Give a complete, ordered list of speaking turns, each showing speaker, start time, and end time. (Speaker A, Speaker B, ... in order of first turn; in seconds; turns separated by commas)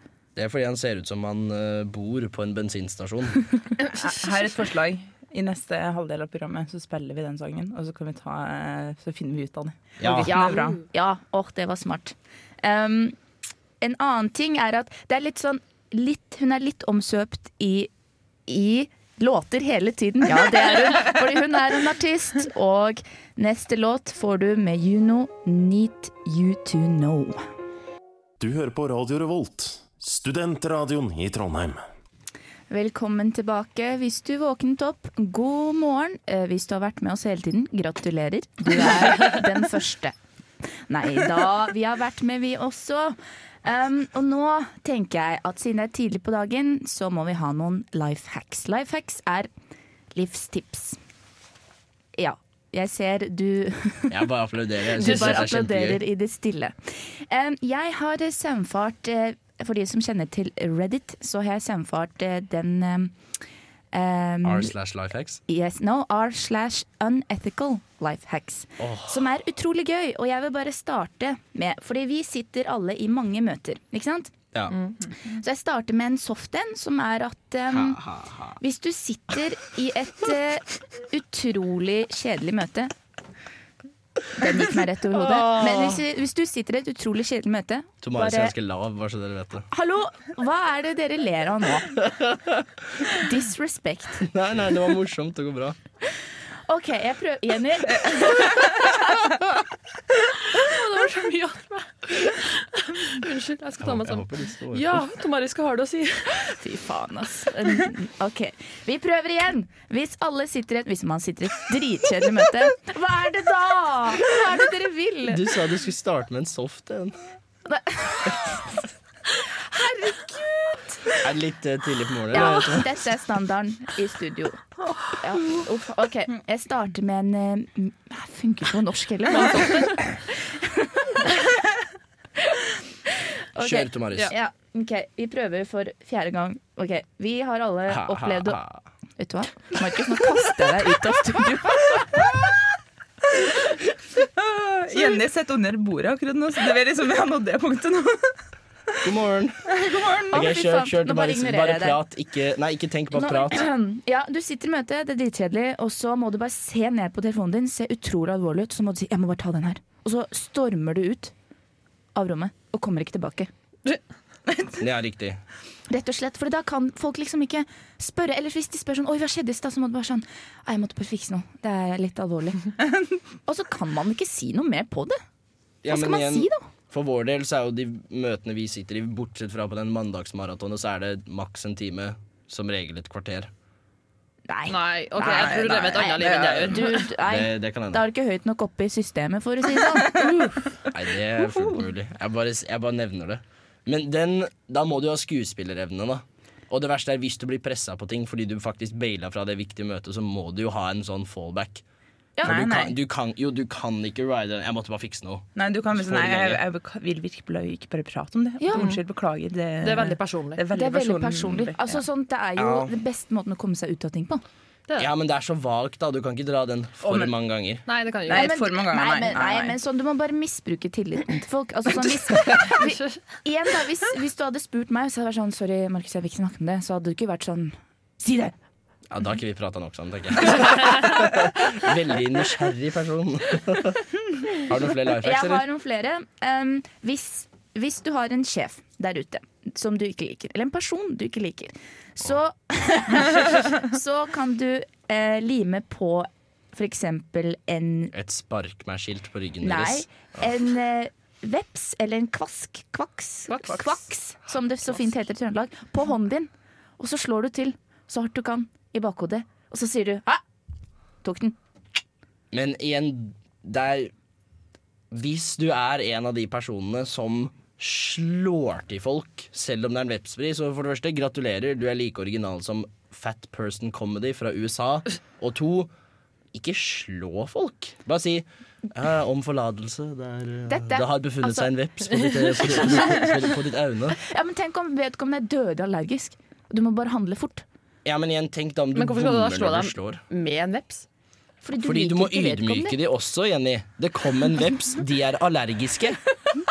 Speaker A: 0.4-3.4, Speaker B: 3.9-10.8, Speaker A: 10.0-10.4, Speaker C: 10.2-13.2, Speaker C: 13.8-17.9, Speaker C: 18.5-27.4, Speaker D: 28.4-31.8, Speaker C: 32.7-40.1, Speaker C: 40.9-49.5, Speaker C: 50.1-51.0, Speaker C: 52.1-54.1, Speaker A: 54.1-56.0, Speaker C: 55.0-63.1, Speaker C: 63.9-64.7, Speaker A: 64.4-65.4, Speaker C: 65.5-74.3, Speaker A: 68.8-69.2, Speaker C: 75.2-78.0, Speaker A: 77.7-78.6, Speaker C: 78.6-82.9, Speaker C: 84.4-88.5, Speaker A: 85.1-86.0, Speaker A: 88.0-89.7, Speaker C: 89.7-92.0, Speaker A: 92.0-92.7, Speaker C: 93.1-94.3, Speaker A: 94.2-95.8, Speaker C: 96.7-98.8, Speaker E: 100.4-106.5, Speaker A: 103.8-105.0, Speaker C: 106.6-115.4, Speaker A: 115.3-117.2, Speaker C: 117.7-118.8, Speaker C: 119.7-121.0, Speaker A: 121.2-123.0, Speaker C: 122.3-124.6, Speaker C: 125.1-131.4, Speaker E: 129.3-129.9, Speaker C: 133.6-138.6, Speaker A: 133.6-134.3, Speaker A: 137.9-138.8, Speaker C: 139.2-142.2, Speaker B: 144.4-148.4, Speaker A: 149.0-149.7, Speaker B: 149.7-150.2, Speaker A: 150.3-153.7, Speaker C: 150.3-152.0, Speaker C: 153.1-161.3, Speaker C: 162.1-163.5, Speaker A: 164.8-165.4, Speaker C: 165.9-172.7, Speaker C: 173.4-175.2, Speaker A: 175.8-183.5, Speaker C: 175.9-176.6, Speaker C: 184.5-190.7, Speaker E: 184.7-187.0, Speaker B: 185.2-186.7, Speaker A: 187.2-188.0, Speaker A: 190.9-201.8, Speaker A: 202.4-206.6, Speaker B: 202.4-202.9, Speaker B: 205.6-212.0, Speaker C: 208.6-208.9, Speaker E: 208.7-209.0, Speaker E: 209.8-210.6, Speaker C: 210.7-214.4, Speaker A: 212.6-212.9, Speaker A: 215.0-217.8, Speaker B: 217.0-217.3, Speaker E: 217.9-218.5, Speaker B: 218.3-219.8, Speaker C: 218.3-228.6, Speaker A: 229.1-235.6, Speaker C: 235.2-248.1, Speaker A: 248.1-250.4, Speaker C: 249.6-260.4, Speaker E: 253.5-254.0, Speaker C: 261.2-261.6, Speaker A: 262.5-264.1, Speaker A: 265.1-275.9, Speaker A: 276.5-284.2, Speaker C: 280.7-281.7, Speaker E: 282.1-283.2, Speaker C: 284.2-287.6, Speaker A: 288.1-290.2, Speaker E: 288.9-291.1, Speaker C: 291.6-292.9, Speaker A: 291.8-296.2